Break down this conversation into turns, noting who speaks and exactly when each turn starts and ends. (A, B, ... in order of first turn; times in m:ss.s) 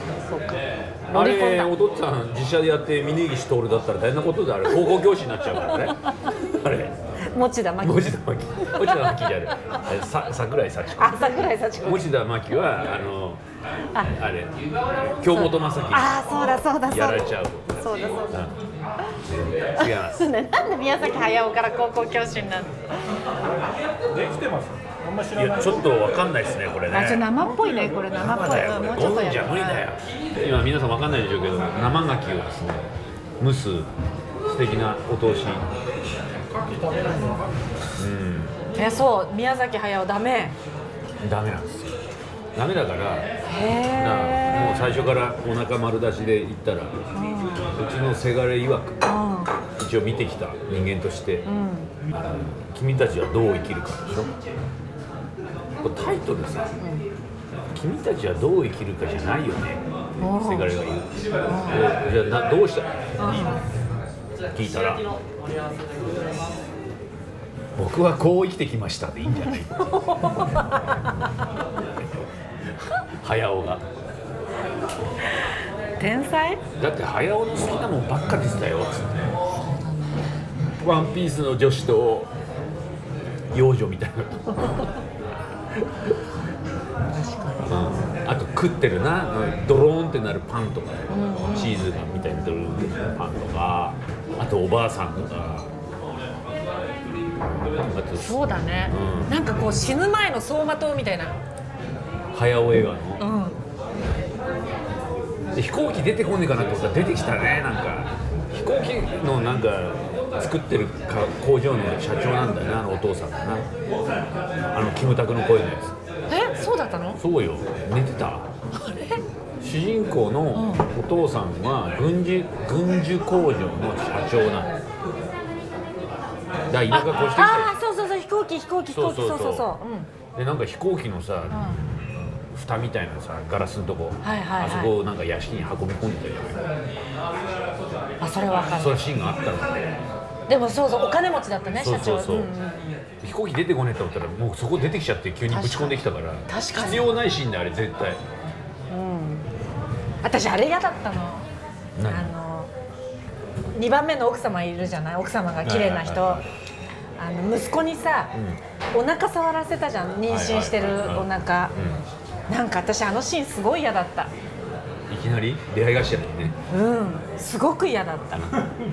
0:00.2-0:01.7 A
0:01.1-0:06.9 B
0:07.3-0:09.2 A
0:07.8-0:13.4 B
0:11.0-0:12.1 A
0:14.1-0:14.5 B
0:15.2-0:16.2 B
0:15.3-0:18.4 A
0:16.9-0:17.7 B
0:19.2-0:20.3 B
0:20.1-0:22.8 A
0:24.1-0:25.8 C
0:25.3-0:27.3 B
0:26.9-0:29.8 A
0:28.2-0:32.8 B
0:33.4-0:33.9 B
0:34.5-0:35.6 B
0:36.6-0:37.4 C
0:38.0-0:38.6 B
0:38.7-0:40.6 A
0:41.2-0:42.0 B
0:42.5-0:43.3 B
0:43.4-0:44.8 A
0:43.9-0:47.0 B
0:47.1-0:47.7 A
0:47.6-0:49.0 B
0:49.0-0:49.5 A
0:49.8-0:51.5 B
0:51.4-0:51.9 A
0:52.1-0:54.3 B
0:55.8-0:56.7 B
0:56.8-0:57.0 A
0:57.7-1:01.1 B
1:00.2-1:00.8 A
1:01.4-1:01.9 A
1:01.6-1:02.9 B
1:03.2-1:03.6 A
1:04.5-1:05.1 B
1:07.8-1:10.4 B
1:10.2-1:10.6 A
1:13.2-1:13.8 B
1:16.0-1:16.6 A
1:16.8-1:19.3 B
1:19.8-1:20.2 A
1:20.8-1:22.3 B
1:23.5-1:24.9 B
1:27.1-1:28.1 A
1:27.6-1:35.7 B
1:31.1-1:31.8 A
1:37.5-1:39.3 B
1:38.2-1:41.4 A
1:42.3-1:43.2 B
1:43.2-1:43.6 A
1:45.5-1:53.7 B
1:54.7-1:55.9 B
1:56.3-1:57.2 A
1:57.2-1:58.5 B
1:58.7-1:59.2 A
1:59.6-2:04.7 B
2:00.5-2:00.9 A
2:06.7-2:07.7 B
2:06.9-2:10.1 A
2:08.9-2:09.7 B
2:10.3-2:16.6 B
2:11.5-2:11.8 A
2:14.2-2:14.9 A
2:18.2-2:19.0 A
2:18.7-2:19.9 B
2:20.5-2:23.0 A
2:21.7-2:22.5 B
2:23.2-2:28.2 B
2:25.5-2:27.0 A
2:28.9-2:29.5 A
2:30.2-2:31.4 A
2:32.0-2:32.3 B
2:32.0-2:32.7 A
2:33.7-2:36.4 A
2:35.6-2:36.4 B
2:37.2-2:38.3 A
2:38.3-2:38.6 B
2:38.9-2:41.7 A
2:40.3-2:42.0 B
2:42.5-2:44.3 A
2:45.1-2:46.5 B
2:46.7-2:48.5 A